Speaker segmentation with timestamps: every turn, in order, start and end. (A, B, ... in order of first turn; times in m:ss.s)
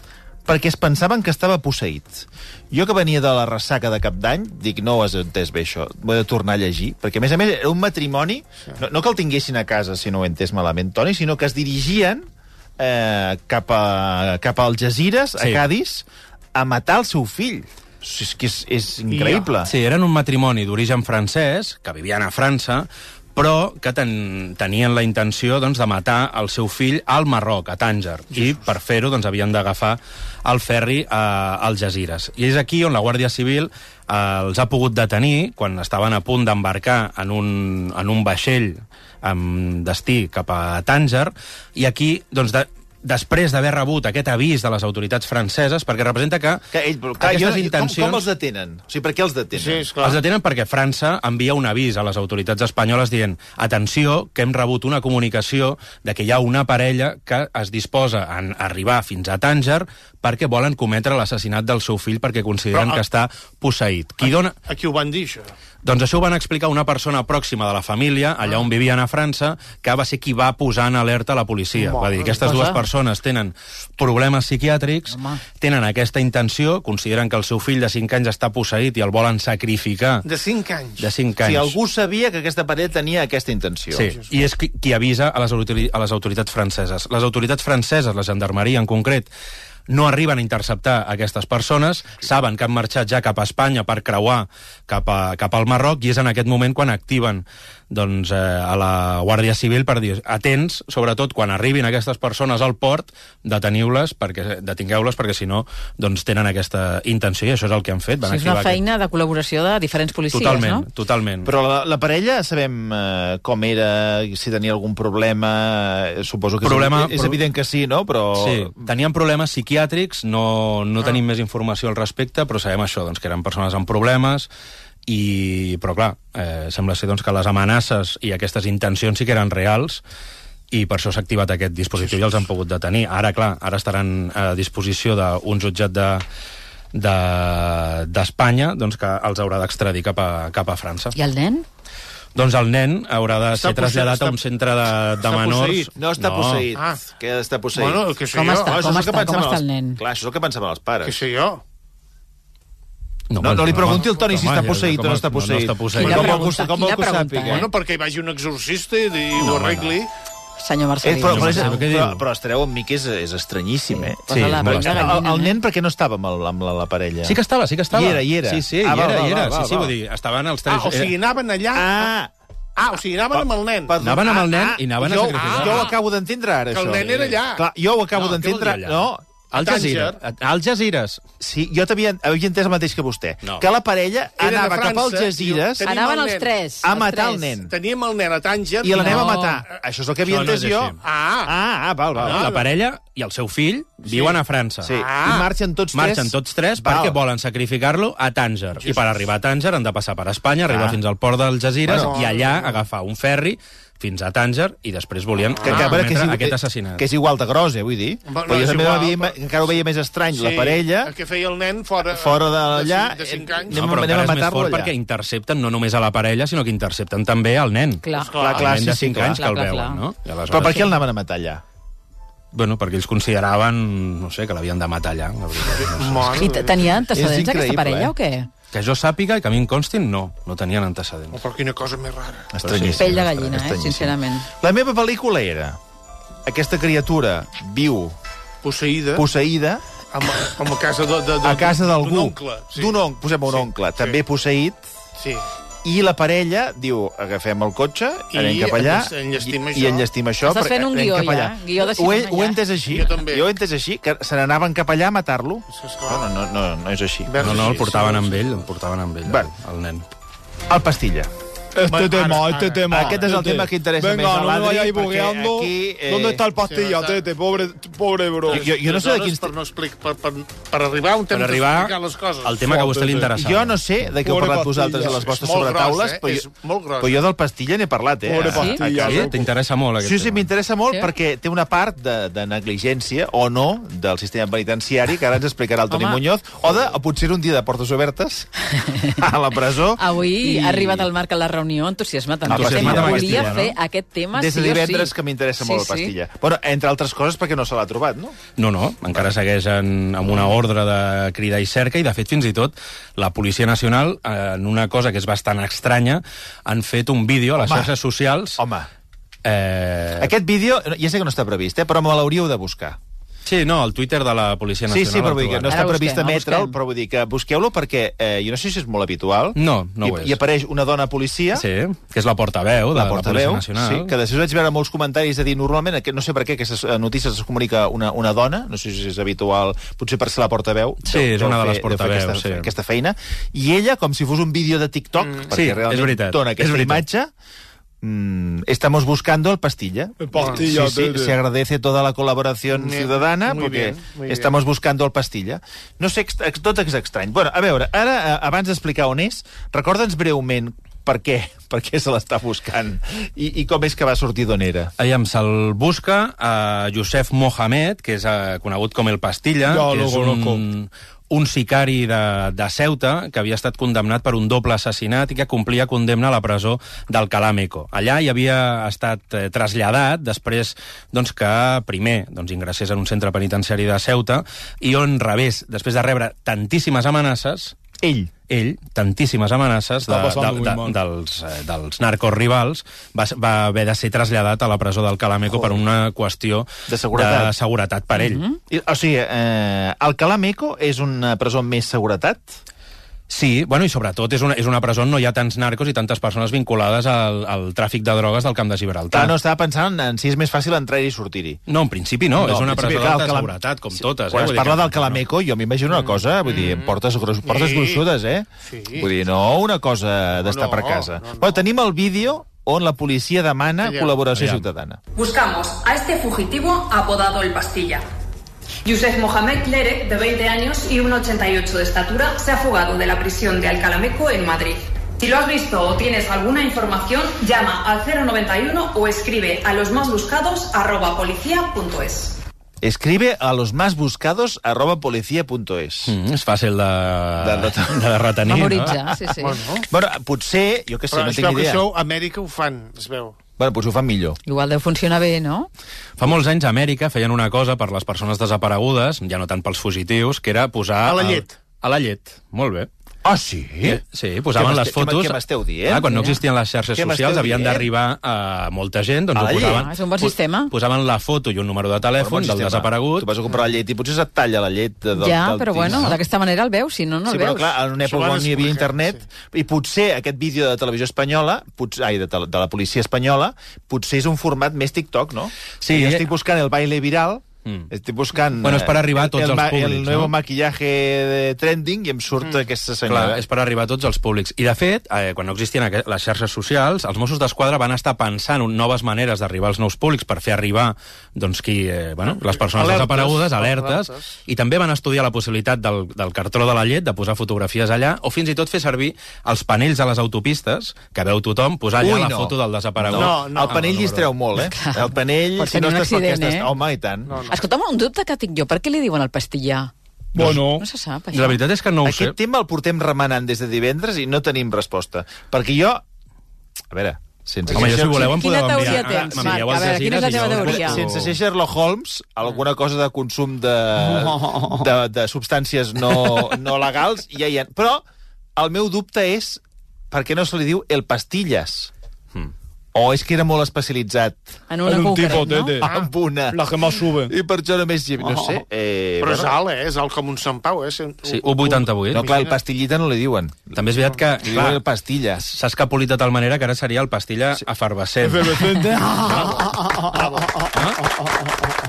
0:00.4-0:19.7 A
0:15.4-0:15.6 B
0:19.1-0:19.5 C
0:19.6-0:46.6 B
0:28.3-0:28.6 C
0:46.7-0:49.9 A
0:47.2-0:48.2 B
0:49.6-0:50.2 C
0:50.0-1:04.6 B
1:02.7-1:03.0 C
1:04.2-1:05.5 C
1:05.8-1:20.2 B
1:11.7-1:12.7 C
1:12.4-1:12.8 D
1:15.1-1:15.4 D
1:20.2-1:21.1 C
1:21.0-1:21.8 B
1:21.4-1:24.1 A
1:23.9-1:29.3 B
1:24.0-1:24.3 C
1:29.9-1:48.8 B
1:48.2-1:50.8 D
1:50.3-1:51.5 B
1:51.4-1:58.8 A
1:56.6-1:57.4 B
1:58.4-2:04.5 B
2:05.0-2:10.0 B
2:10.7-2:16.2 B
2:16.9-2:21.1 B
2:21.1-2:21.6 D
2:22.3-2:26.6 B
2:23.5-2:24.4 C
2:25.2-2:25.9 C
2:25.9-2:28.1 A
2:26.7-2:27.0 C
2:27.7-2:28.8 C
2:28.3-2:30.0 D
2:28.6-2:31.2 A
2:31.0-2:31.6 C
2:33.3-2:36.5 B
2:33.4-2:37.7 A
2:33.8-2:34.1 C
2:35.9-2:37.7 D
2:37.5-2:40.1 C
2:39.4-2:39.9 B
2:40.6-2:41.8 D
2:41.0-2:47.4 A
2:41.3-2:42.2 B
2:43.9-2:45.6 D
2:44.3-2:45.2 B
2:47.2-2:51.1 B
2:47.9-2:49.9 A
2:50.7-2:52.1 C
2:51.7-2:52.3 A
2:52.8-2:54.0 C
2:53.9-3:00.1 A
2:54.0-2:55.9 B
2:55.3-2:56.0 C
2:56.7-2:57.6 C
2:58.1-3:01.2 B
2:59.6-3:00.2 C
3:01.4-3:05.9 A
3:04.4-3:06.6 C
3:05.8-3:07.5 D
3:06.8-3:07.7 A
3:07.6-3:09.5 C
3:08.8-3:12.5 A
3:08.9-3:09.6 D
3:10.2-3:11.0 B
3:11.0-3:11.5 C
3:12.2-3:12.6 C
3:12.2-3:14.9 B
3:14.1-3:15.5 C
3:14.8-3:17.2 A
3:15.9-3:27.1 B
3:20.7-3:21.0 A
3:21.9-3:22.1 A
3:21.9-3:22.8 C
3:25.5-3:26.0 C
3:25.6-3:31.1 A
3:28.3-3:29.7 C
3:30.3-3:33.9 C
3:32.0-3:34.9 A
3:33.7-3:40.9 B
3:38.0-3:38.4 D
3:38.1-3:38.7 C
3:38.4-3:39.4 A
3:39.3-3:40.0 D
3:40.5-3:41.6 A
3:42.5-3:46.4 B
3:45.6-3:47.0 C
3:46.4-3:48.5 D
3:47.1-3:48.1 A
3:48.7-3:51.4 B
3:51.3-3:52.5 C
3:52.5-3:55.8 A
3:52.6-3:53.1 B
3:53.0-3:54.5 D
3:56.4-3:58.2 A
3:58.6-3:59.2 C
3:59.1-3:59.8 A
4:00.1-4:04.2 C
4:01.4-4:04.8 A
4:05.2-4:05.4 C
4:05.8-4:17.9 A
4:08.3-4:10.0 C
4:10.4-4:12.6 D
4:12.9-4:13.5 C
4:15.7-4:16.3 C
4:17.3-4:18.4 C
4:17.4-4:20.0 B
4:20.7-4:21.3 A
4:21.7-4:28.7 E
4:21.9-4:23.4 C
4:22.9-4:26.4 A
4:26.6-4:27.3 C
4:28.5-4:29.5 A
4:28.5-4:33.3 C
4:31.3-4:33.8 B
4:33.3-4:36.5 A
4:34.2-4:35.3 E
4:35.0-4:37.2 C
4:37.0-4:39.3 A
4:38.2-4:39.5 E
4:38.4-4:40.5 B
4:40.0-4:51.1 A
4:45.9-4:46.2 D
4:48.8-4:49.2 D
4:49.9-4:56.1 D
4:52.5-4:53.7 A
4:52.5-4:53.8 B
4:54.3-4:58.4 A
4:58.6-5:08.6 B
5:07.6-5:07.9 A
5:08.6-5:08.9 A
5:09.4-5:10.3 B
5:10.2-5:13.0 A
5:13.4-5:15.8 B
5:14.9-5:21.6 A
5:15.7-5:16.8 D
5:19.6-5:20.4 B
5:21.5-5:24.1 B
5:22.9-5:37.3 A
5:31.0-5:32.7 B
5:35.5-5:37.0 B
5:38.0-5:54.9 A
5:40.2-5:41.4 E
5:40.4-5:40.7 C
5:42.7-5:44.5 C
5:55.0-6:17.8 B
5:59.6-6:00.6 E
6:18.0-6:18.3 A
6:18.5-6:28.4 B
6:20.0-6:21.0 E
6:26.9-6:27.5 A
6:28.2-6:28.6 D
6:28.7-6:32.6 A
6:33.3-6:39.3 B
6:39.1-6:41.6 A
6:41.7-6:45.2 B
6:42.4-6:55.0 A
6:46.4-6:48.0 C
6:48.6-6:49.1 C
6:50.4-6:51.6 C
6:53.8-6:54.2 C
6:54.3-6:54.6 B
6:55.1-6:58.0 F
6:58.8-7:12.4 F
7:12.8-7:16.2 A
7:16.1-7:19.0 B
7:17.4-7:18.2 A
7:18.5-7:19.6 D
7:18.7-7:21.8 A
7:19.4-7:19.9 C
7:21.1-7:23.4 C
7:23.6-7:24.4 A
7:24.4-7:25.7 D
7:26.2-7:32.9 B
7:31.0-7:31.5 C
7:33.2-7:34.0 A
7:33.8-7:43.3 B
7:34.5-7:36.1 A
7:36.0-7:36.4 D
7:36.9-7:37.9 A
7:39.3-7:39.9 A
7:39.6-7:40.7 D
7:42.2-7:46.2 A
7:45.1-7:47.7 D
7:45.8-7:46.2 B
7:47.3-8:03.4 A
7:48.0-7:49.2 C
7:55.8-7:56.3 B
7:58.6-8:00.3 B
8:03.1-8:24.3 B
8:12.3-8:14.2 C
8:22.0-8:27.4 A
8:23.1-8:23.8 C
8:24.6-8:26.7 D
8:27.3-8:27.6 C
8:27.4-8:29.9 D
8:30.3-8:30.8 E
8:30.4-8:31.6 D
8:31.3-8:32.4 B
8:32.0-8:36.0 A
8:36.9-8:39.7 A
8:37.7-8:41.3 B
8:37.7-8:41.0 D
8:40.5-8:48.0 A
8:44.3-8:44.6 E
8:48.6-8:51.9 A
8:52.9-8:54.6 A
8:54.7-8:55.8 D
8:54.8-8:55.9 E
8:55.8-8:56.6 A
8:56.5-8:57.3 E
8:57.2-8:59.6 A
8:58.3-8:58.6 E
8:59.2-9:02.6 C
9:01.2-9:02.3 B
9:02.1-9:03.7 A
9:03.7-9:04.8 B
9:04.4-9:05.5 A
9:05.4-9:08.8 B
9:08.2-9:10.7 E
9:09.2-9:10.6 C
9:10.7-9:11.0 B